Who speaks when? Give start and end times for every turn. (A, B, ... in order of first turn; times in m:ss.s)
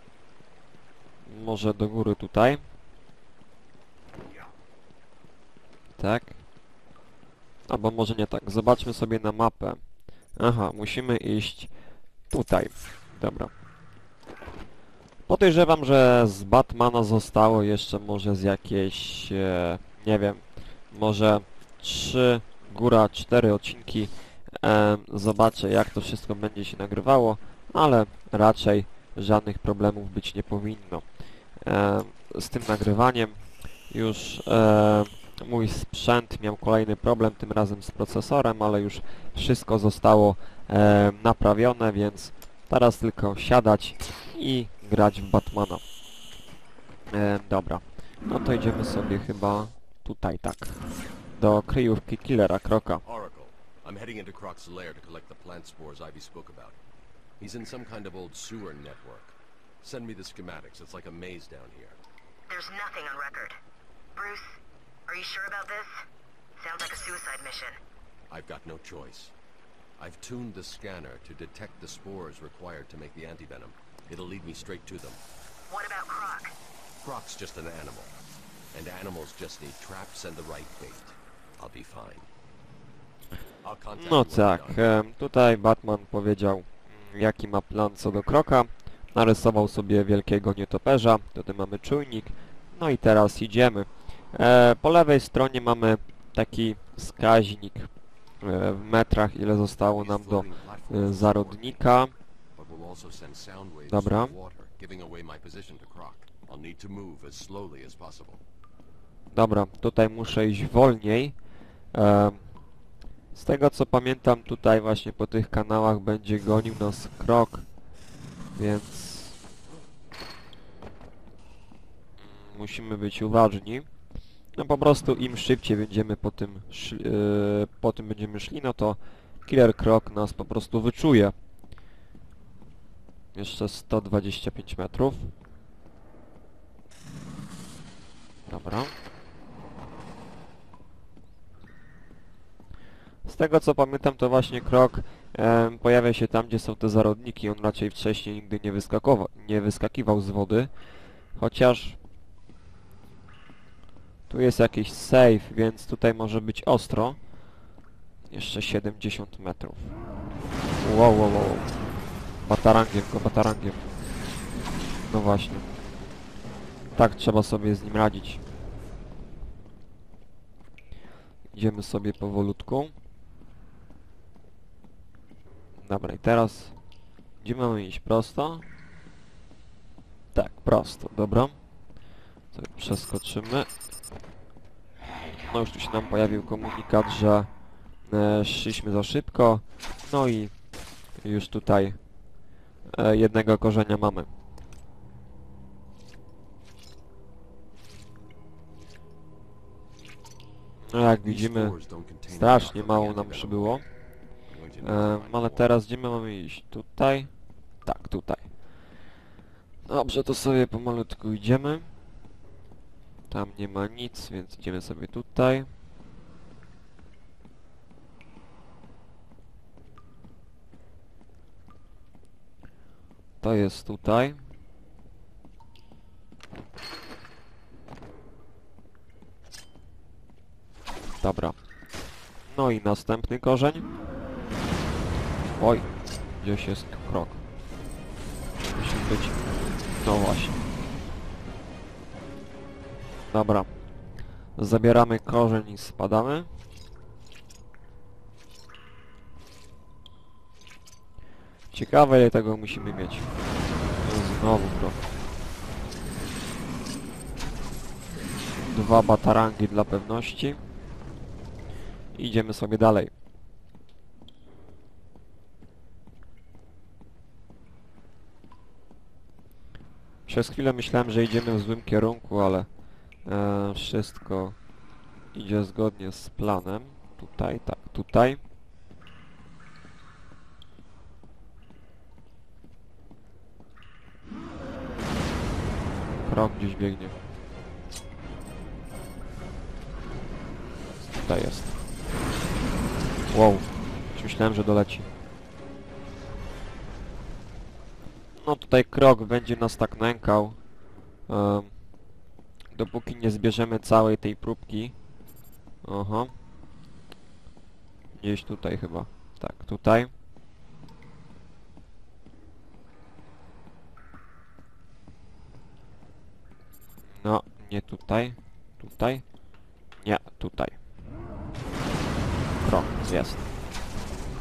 0:01.2-0:02.6 A
0:06.0-0:06.4 A
0:07.7-0:09.8 A
0:10.4-0:11.7 A
0:12.3-0:13.5 A
0:15.3-0:45.8 A
0:47.1-0:53.0 A
0:53.0-0:56.8 B
0:57.4-1:02.0 B
1:02.5-1:03.6 C
1:04.2-1:04.6 C
1:05.1-1:05.9 C
1:06.6-1:07.8 C
1:08.3-1:09.4 B
1:10.0-1:15.2 B
1:15.7-1:16.6 C
1:17.0-1:18.2 B
1:18.7-1:22.3 B
1:23.6-1:24.9 B
1:24.0-1:42.1 A
1:39.9-1:41.8 B
1:42.6-1:48.4 B
1:43.9-1:44.4 A
1:49.3-1:51.4 A
1:51.9-1:52.5 A
1:53.3-1:57.7 A
1:58.6-1:59.4 A
2:02.2-2:03.9 A
2:04.5-2:11.3 A
2:13.4-2:15.3 A
2:18.5-2:19.0 A
2:23.2-2:30.7 A
2:31.3-2:32.0 A
2:34.3-2:37.2 A
2:38.3-2:40.0 A
2:40.8-2:41.7 A
2:42.4-2:43.9 A
2:45.1-2:45.7 A
2:47.0-2:48.4 A
2:51.5-2:52.9 A
2:55.8-2:56.8 A
2:57.4-2:58.7 A
3:00.3-3:01.6 A
3:02.5-3:03.7 A
3:05.5-3:07.5 A
3:08.0-3:10.5 A
3:11.2-3:12.0 A
3:12.9-3:14.3 A
3:20.8-3:21.8 A
3:21.2-3:23.8 B
3:22.3-3:23.8 A
3:24.5-3:25.7 B
3:24.8-3:27.3 A
3:27.8-3:28.5 A
3:29.9-3:31.9 A
3:33.3-3:35.7 A
3:43.4-3:44.4 A
3:51.2-3:51.6 A
3:52.5-3:53.9 A
3:55.6-3:57.4 A
3:58.7-4:00.7 A
4:03.3-4:03.7 A
4:04.6-4:06.5 A
4:11.7-4:13.3 A
4:14.0-4:15.0 A
4:18.7-4:20.6 A
4:22.2-4:23.1 A
4:30.3-4:32.7 A
4:33.2-4:34.6 A
4:35.3-4:38.4 A
4:46.2-4:47.2 A
4:51.1-4:51.8 A
4:53.3-4:55.1 A
4:58.4-5:00.6 A
5:01.3-5:01.7 A
5:02.7-5:05.0 A
5:05.8-5:06.3 A
5:08.1-5:10.1 A
5:17.2-5:19.2 A
5:20.0-5:20.8 A
5:22.6-5:23.5 A